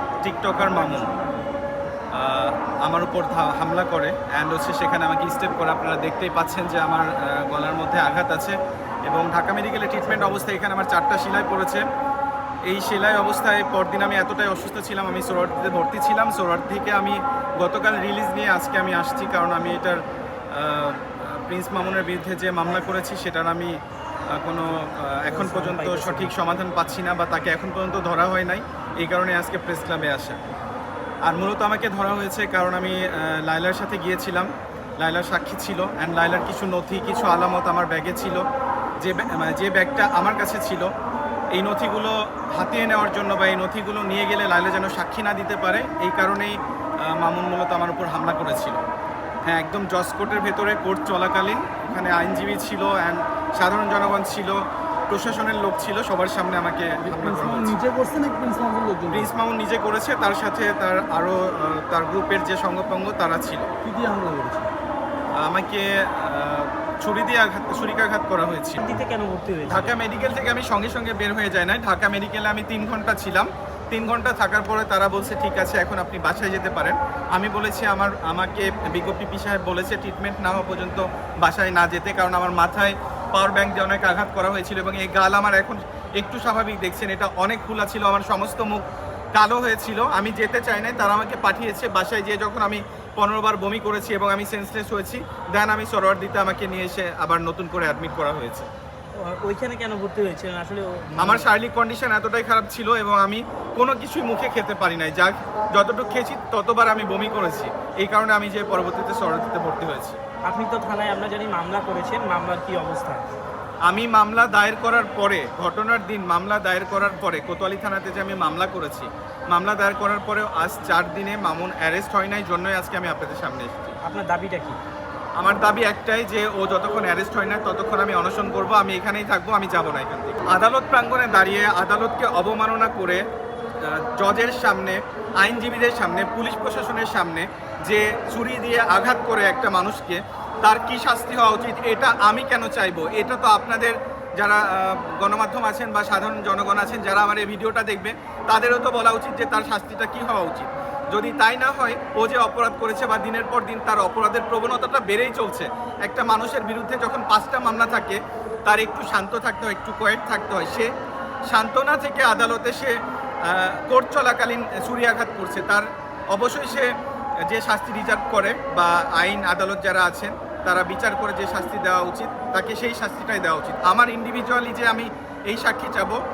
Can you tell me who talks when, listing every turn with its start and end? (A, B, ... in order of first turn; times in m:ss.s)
0:00.2-0:01.1 A
0:00.6-0:01.4 B
0:02.1-0:08.6 A
0:09.1-0:11.8 A
0:12.7-0:23.7 A
0:24.3-0:30.4 A
0:25.3-0:26.6 B
0:31.2-0:38.4 A
0:39.0-0:40.9 A
0:41.5-0:48.8 A
0:49.5-0:54.6 A
0:55.1-0:57.7 A
0:57.0-0:59.3 C
0:59.1-1:03.7 A
1:03.8-1:04.7 C
1:05.4-1:09.0 A
1:08.8-1:10.0 B
1:09.6-1:28.8 A
1:29.3-1:38.7 A
1:39.2-1:41.5 B
1:41.2-1:50.2 A
1:50.4-1:53.3 B
1:53.9-2:04.0 A
2:04.0-2:04.8 B
2:05.4-2:13.2 A
2:13.8-2:40.9 A
2:41.5-2:46.9 A
2:47.5-2:56.2 A